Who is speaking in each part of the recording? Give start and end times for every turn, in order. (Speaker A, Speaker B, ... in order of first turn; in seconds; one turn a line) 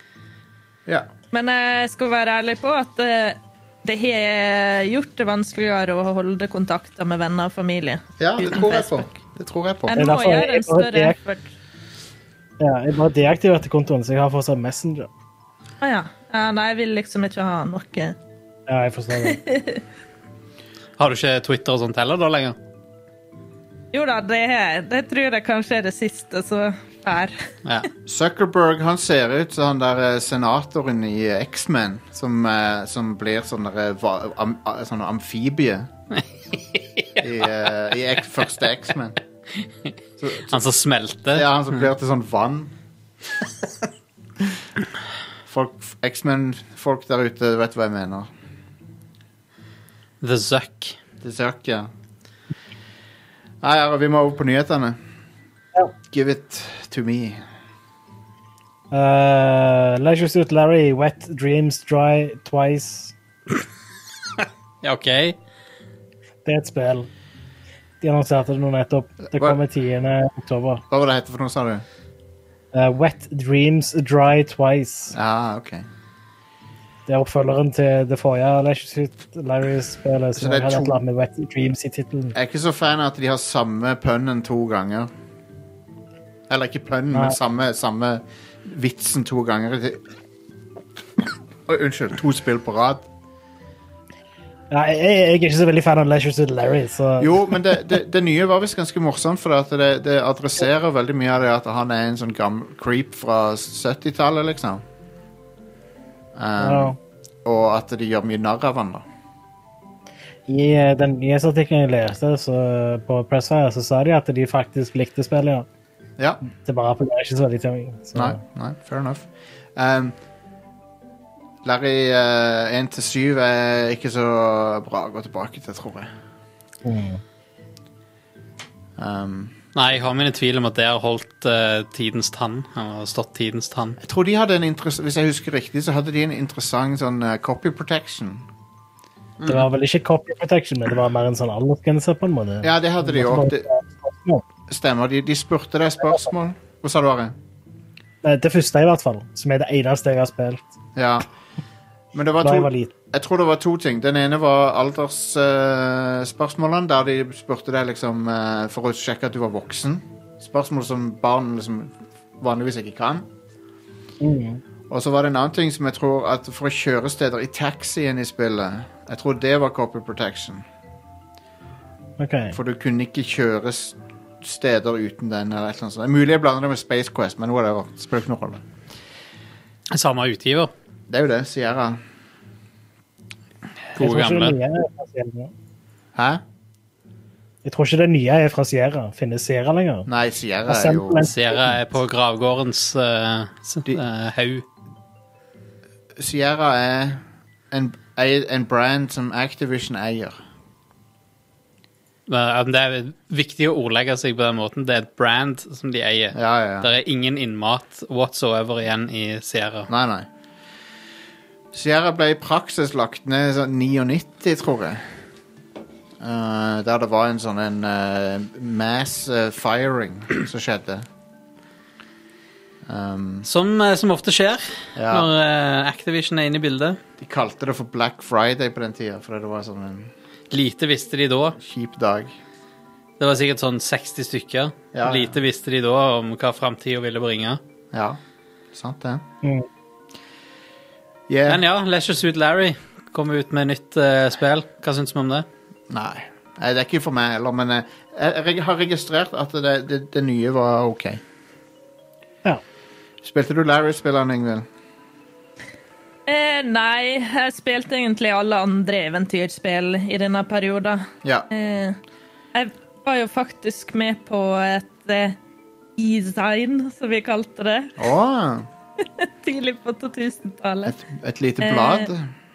Speaker A: 1.3-9.1
Speaker B: 8.2-10.0
Speaker A: 9.9-11.5
Speaker C: 10.0-11.2
Speaker C: 12.6-15.1
Speaker A: 15.8-18.2
Speaker C: 18.7-19.4
Speaker A: 19.2-19.8
Speaker D: 21.0-22.6
Speaker A: 23.9-27.4
Speaker B: 28.1-35.9
Speaker D: 36.2-37.1
Speaker B: 37.2-39.2
Speaker B: 40.2-40.6
Speaker D: 40.5-41.5
Speaker B: 41.3-42.7
Speaker B: 45.5-48.3
Speaker D: 50.2-51.0
Speaker B: 51.2-51.9
Speaker B: 53.6-55.0
Speaker B: 56.1-57.4
Speaker C: 58.9-63.1
Speaker D: 64.8-65.4
Speaker C: 66.5-67.1
Speaker C: 68.0-70.8
Speaker B: 69.3-69.6
Speaker B: 70.9-71.8
Speaker C: 72.7-75.2
Speaker B: 75.1-75.9
Speaker C: 77.1-82.4
Speaker B: 80.4-81.0
Speaker B: 82.3-85.1
Speaker B: 86.5-90.0
Speaker B: 91.7-93.1
Speaker C: 94.7-97.6
Speaker B: 97.2-104.8
Speaker B: 106.3-109.0
Speaker C: 106.6-107.0
Speaker C: 110.5-115.7
Speaker C: 116.5-118.4
Speaker B: 118.2-120.2
Speaker B: 121.6-126.1
Speaker C: 126.8-127.2
Speaker B: 129.0-129.6
Speaker D: 129.8-134.0
Speaker B: 134.0-138.5
Speaker C: 139.5-144.4
Speaker B: 142.6-143.7
Speaker B: 144.7-147.4
Speaker C: 148.2-150.7
Speaker B: 151.0-151.3
Speaker B: 152.1-163.3
Speaker C: 152.4-152.9
Speaker C: 164.2-164.6
Speaker B: 164.9-170.7
Speaker C: 172.2-172.6
Speaker B: 172.5-178.6
Speaker D: 179.9-180.7
Speaker B: 181.1-182.0
Speaker D: 183.9-184.6
Speaker C: 184.0-185.5
Speaker B: 186.2-186.4
Speaker C: 187.6-190.1
Speaker B: 190.1-191.3
Speaker C: 190.7-191.4
Speaker D: 191.3-194.7
Speaker B: 196.2-200.4
Speaker D: 202.3-209.9
Speaker B: 206.3-206.9
Speaker B: 209.9-210.3
Speaker B: 211.7-215.1
Speaker B: 216.2-221.1
Speaker B: 222.8-223.5
Speaker D: 223.4-227.0
Speaker B: 225.0-225.3
Speaker B: 227.2-230.1
Speaker D: 230.5-231.6
Speaker B: 231.6-232.3
Speaker D: 233.2-237.6
Speaker B: 234.9-235.4
Speaker B: 237.9-238.2
Speaker B: 238.7-239.2
Speaker B: 241.3-241.7
Speaker D: 241.5-245.5
Speaker B: 245.9-251.2
Speaker B: 253.2-254.7
Speaker A: 256.3-262.0
Speaker A: 262.5-265.4
Speaker A: 266.0-267.9
Speaker B: 268.0-268.7
Speaker A: 269.0-270.9
Speaker B: 270.9-272.3
Speaker A: 271.6-272.1